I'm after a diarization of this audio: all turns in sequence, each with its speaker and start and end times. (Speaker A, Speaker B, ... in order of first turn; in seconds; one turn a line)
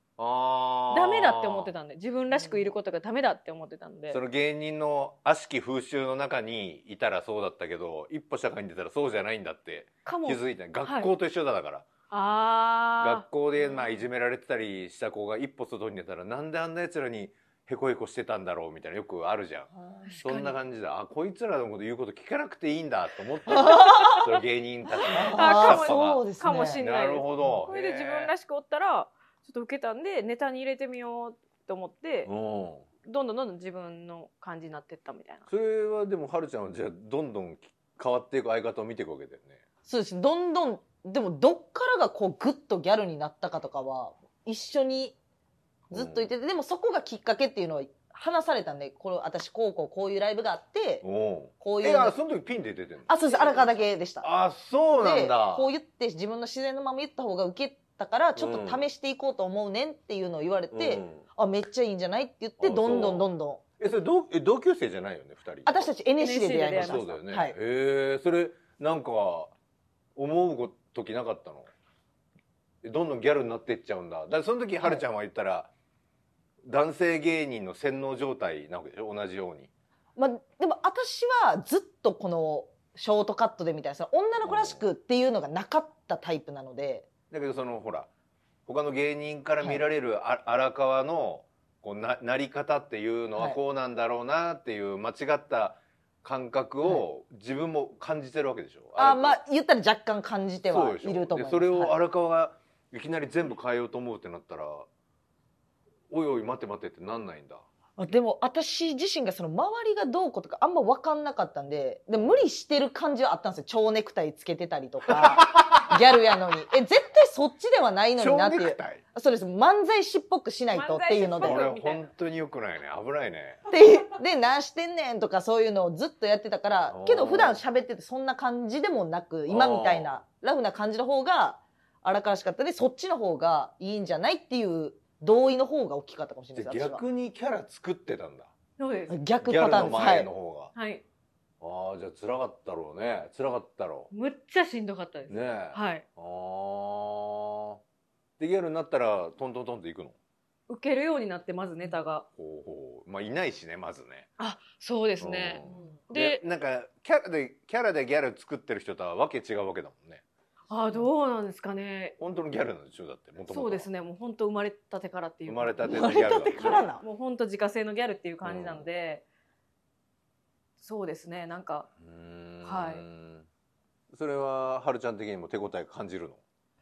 Speaker A: 0.2-1.7
Speaker B: 0.9-4.2
Speaker A: 4.1-11.8
Speaker B: 10.0-11.1
Speaker B: 12.1-13.8
Speaker A: 13.0-26.2
Speaker C: 19.7-20.2
Speaker B: 20.1-20.6
Speaker C: 23.5-24.2
Speaker B: 23.6-24.2
Speaker C: 25.1-26.8
Speaker B: 25.3-32.3
Speaker A: 26.8-28.3
Speaker A: 32.2-32.9
Speaker B: 33.0-35.5
Speaker A: 35.5-39.6
Speaker C: 39.8-45.1
Speaker A: 45.9-46.3
Speaker C: 45.9-51.0
Speaker A: 51.0-55.7
Speaker C: 51.6-52.1
Speaker C: 53.1-54.3
Speaker C: 55.0-63.6
Speaker A: 58.4-58.9
Speaker A: 60.7-61.2
Speaker A: 62.6-63.3
Speaker A: 63.8-65.9
Speaker C: 65.7-67.5
Speaker B: 66.2-67.1
Speaker A: 66.7-69.5
Speaker A: 70.2-71.7
Speaker A: 72.8-75.7
Speaker A: 76.6-79.7
Speaker C: 80.2-87.1
Speaker A: 84.4-84.8
Speaker A: 87.3-88.1
Speaker A: 88.7-99.4
Speaker C: 99.0-101.9
Speaker A: 100.7-104.9
Speaker A: 106.1-107.6
Speaker C: 108.0-121.7
Speaker A: 112.2-112.4
Speaker A: 115.1-116.0
Speaker A: 118.2-119.0
Speaker B: 120.7-122.1
Speaker A: 121.4-123.6
Speaker C: 123.7-137.0
Speaker A: 126.9-127.6
Speaker A: 129.5-130.1
Speaker A: 136.5-138.5
Speaker B: 138.8-139.2
Speaker C: 139.1-140.3
Speaker A: 139.4-140.7
Speaker B: 140.7-141.0
Speaker A: 141.6-144.1
Speaker B: 144.1-146.0
Speaker A: 145.3-147.8
Speaker A: 148.4-150.2
Speaker B: 150.7-152.2
Speaker A: 152.3-154.3
Speaker B: 154.4-156.4
Speaker A: 155.2-160.2
Speaker B: 160.7-162.2
Speaker A: 162.2-163.9
Speaker B: 163.5-169.2
Speaker A: 165.5-166.9
Speaker C: 165.8-167.0
Speaker A: 168.4-168.9
Speaker B: 170.8-171.9
Speaker A: 172.0-173.5
Speaker B: 172.6-173.0
Speaker A: 174.1-176.4